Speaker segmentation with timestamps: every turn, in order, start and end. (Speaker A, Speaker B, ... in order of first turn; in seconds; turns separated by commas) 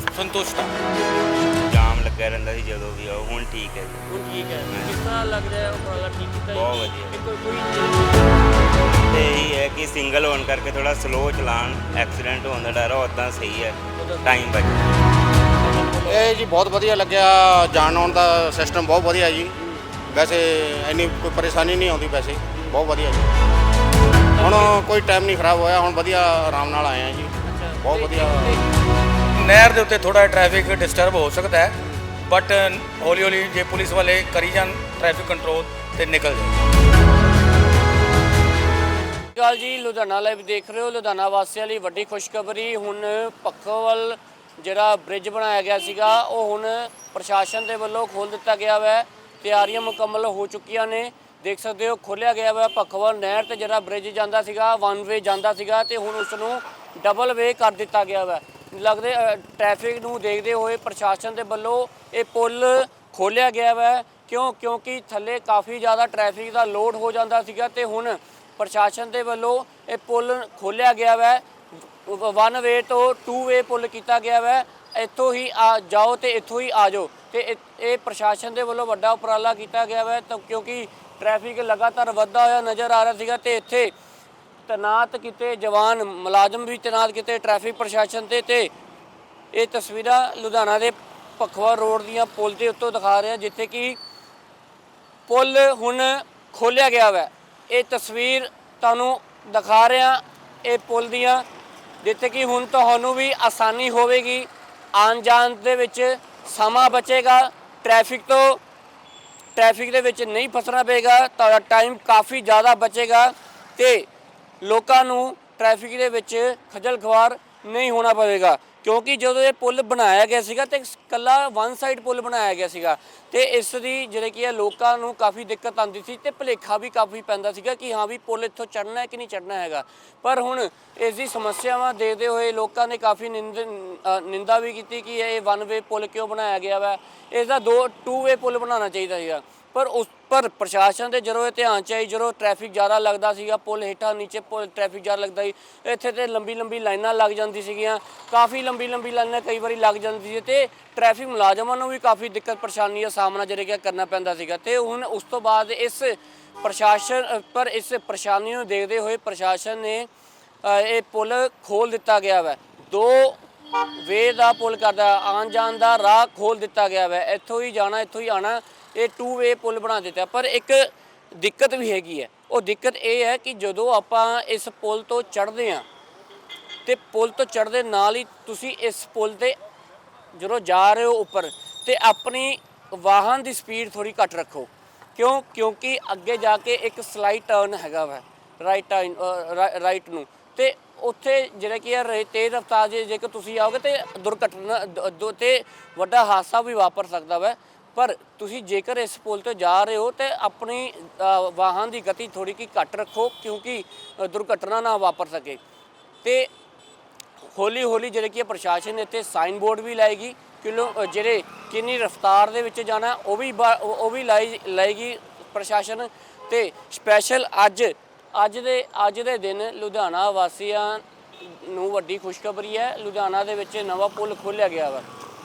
Speaker A: 0.1-0.8, Speaker B: 1.6-4.1, Speaker C: 4.1-8.2, Speaker B: 4.7-5.0, Speaker B: 6.5-7.2, Speaker B: 9.1-14.9, Speaker C: 14.0-14.4, Speaker C: 15.6-16.3, Speaker D: 16.1-23.3, Speaker C: 19.6-20.0, Speaker C: 24.4-24.8, Speaker D: 24.4-28.6, Speaker C: 27.4-28.6, Speaker A: 29.3-36.7, Speaker C: 39.4-83.9, Speaker C: 84.7-88.7, Speaker C: 89.5-94.0, Speaker C: 95.3-101.5, Speaker C: 102.0-108.6, Speaker C: 109.6-114.1, Speaker C: 114.6-160.1, Speaker C: 160.6-163.4, Speaker C: 164.0-175.9, Speaker C: 176.8-179.6, Speaker C: 180.3-205.6, Speaker C: 206.2-206.5, Speaker C: 207.5-225.1